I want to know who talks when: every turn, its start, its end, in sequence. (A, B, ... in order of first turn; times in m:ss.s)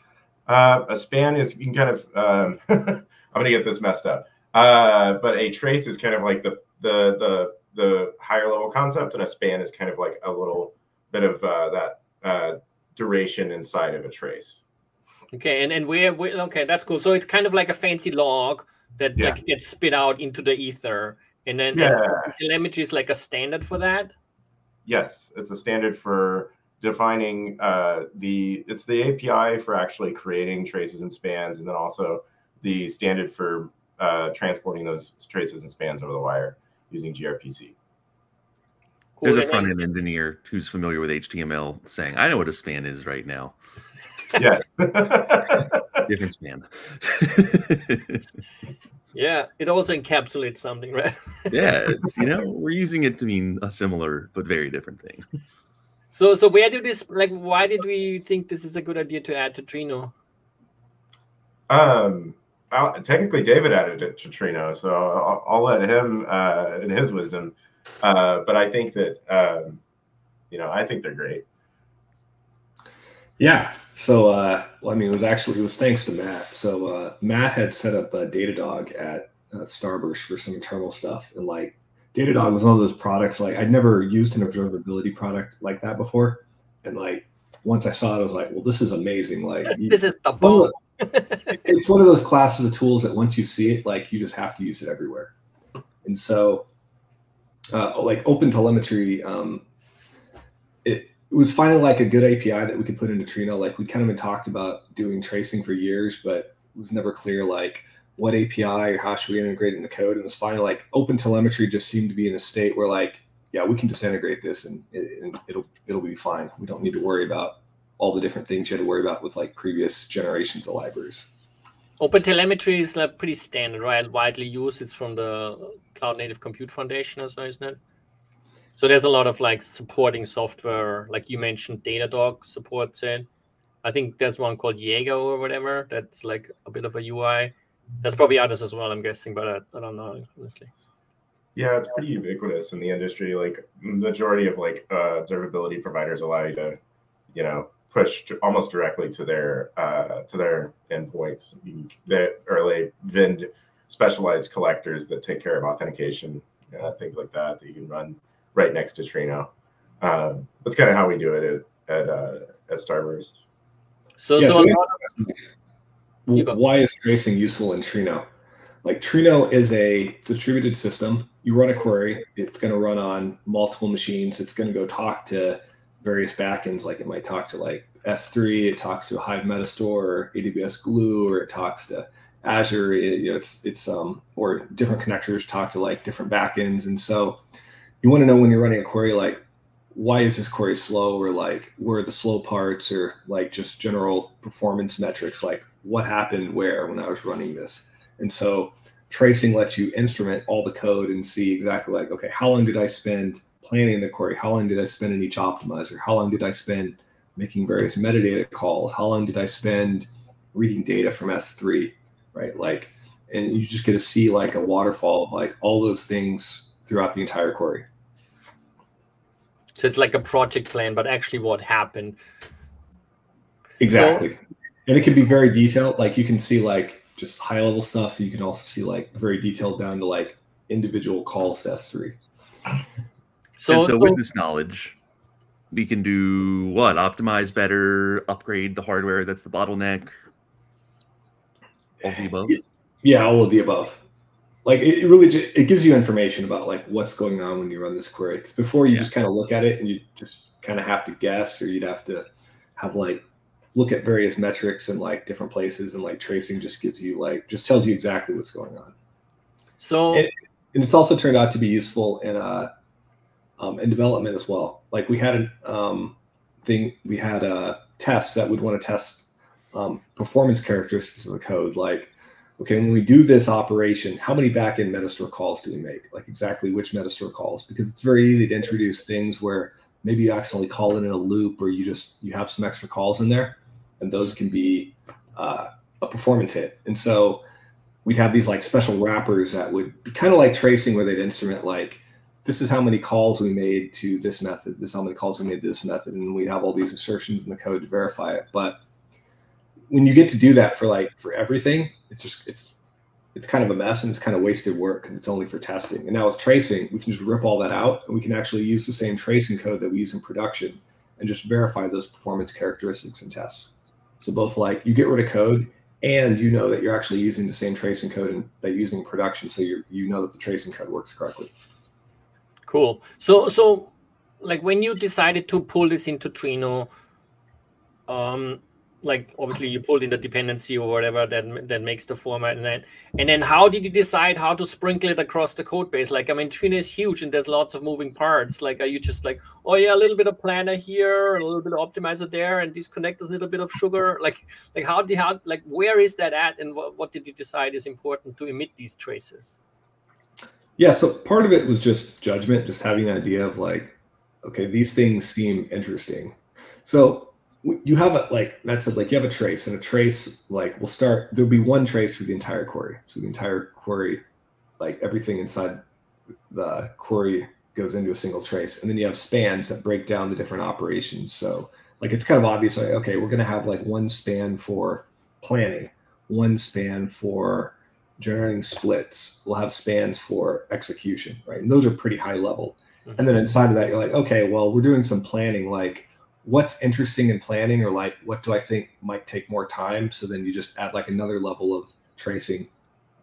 0:00.5-0:14.6 A
0:15.3-0:24.1 B
0:21.7-0:22.4 A
0:24.9-0:37.8 A
0:39.2-0:39.7 B
0:39.2-0:43.6 C
0:44.4-0:46.0 A
0:46.1-0:48.2 C
0:49.1-0:51.7 B
0:51.5-0:55.2 C
0:56.1-1:00.1 B
1:01.7-1:09.8 A
1:10.5-1:11.4 A
1:13.4-1:30.7 D
1:29.7-1:31.6 B
1:31.6-1:35.3 D
1:36.0-1:36.7 D
1:37.7-1:39.6 D
1:40.8-2:01.3 D
2:02.0-2:07.8 B
2:08.8-2:13.3 B
2:13.8-2:20.7 B
2:21.6-2:26.8 A
2:27.3-2:43.3 A
2:44.2-2:45.0 B
2:44.4-2:45.4 D
2:46.3-2:48.2 D
2:48.8-3:07.4 D
3:08.0-3:09.4 D
3:09.9-3:37.9 D
3:39.8-3:42.2 B
3:43.8-3:52.2 D
3:43.9-3:44.2 B
3:53.6-3:54.2 B
3:53.7-3:55.0 C
3:55.7-4:00.1 C
4:02.0-4:02.6 C
4:02.5-4:04.0 D
4:04.6-4:12.3 D
4:12.8-4:13.2 D
4:13.7-4:18.9 D
4:19.8-4:20.3 B
4:20.1-4:22.7 D
4:23.6-4:47.4 D
4:48.0-4:58.8 D
4:59.9-5:02.8 D
5:03.4-5:21.5 D
5:22.7-5:26.9 B
5:28.1-5:49.6 B
5:50.8-6:04.2 D
6:04.8-6:05.8 D
6:06.5-6:32.7 D